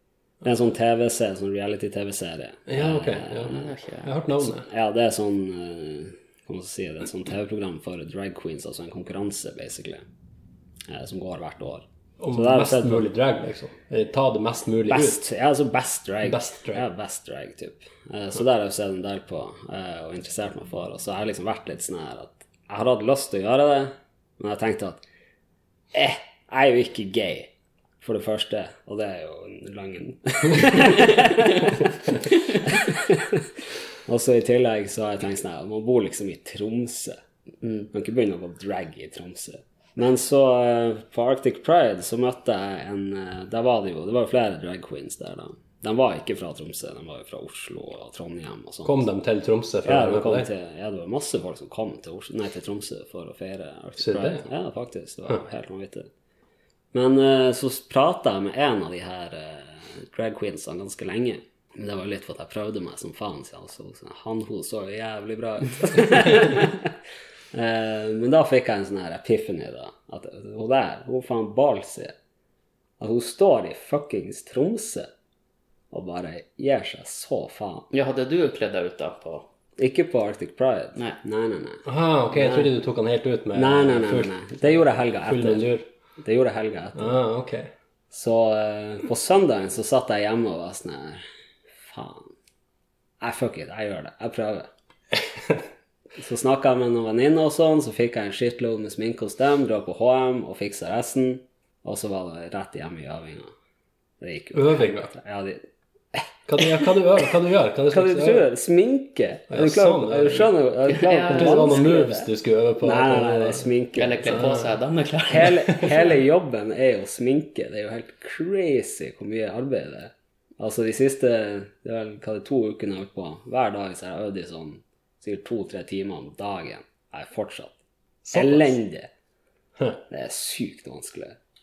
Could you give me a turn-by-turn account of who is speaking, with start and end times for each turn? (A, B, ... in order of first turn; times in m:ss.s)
0:00.4-0:03.5 A
0:02.7-0:04.7 B
0:03.5-0:04.1 C
0:04.5-0:10.0 A
0:10.9-0:13.1 A
0:12.2-0:15.2 B
0:14.9-0:25.0 A
0:16.2-0:16.8 B
0:25.9-0:49.0 A
0:48.8-0:50.5 B
0:49.8-0:56.1 A
0:54.0-0:54.4 B
0:56.9-1:06.9 A
1:07.5-1:12.2 A
1:13.0-1:15.1 A
1:15.9-1:17.9 A
1:17.9-1:19.5 C
1:19.8-1:22.7 A
1:21.8-1:24.5 B
1:23.5-1:25.7 A
1:25.2-1:25.8 B
1:26.2-1:27.2 A
1:27.0-1:27.7 B
1:28.1-1:31.2 A
1:31.8-1:32.3 A
1:33.2-1:34.7 A
1:36.2-1:43.5 A
1:44.2-1:46.8 A
1:44.5-1:45.1 B
1:46.5-1:48.5 B
1:47.9-1:52.3 A
1:49.5-1:50.5 B
1:50.9-1:51.8 C
1:51.2-1:53.7 B
1:52.8-1:54.4 A
1:54.0-1:56.1 C
1:54.3-1:54.6 B
1:55.3-2:07.8 A
2:08.2-2:08.8 B
2:08.3-2:09.1 A
2:10.1-2:11.4 A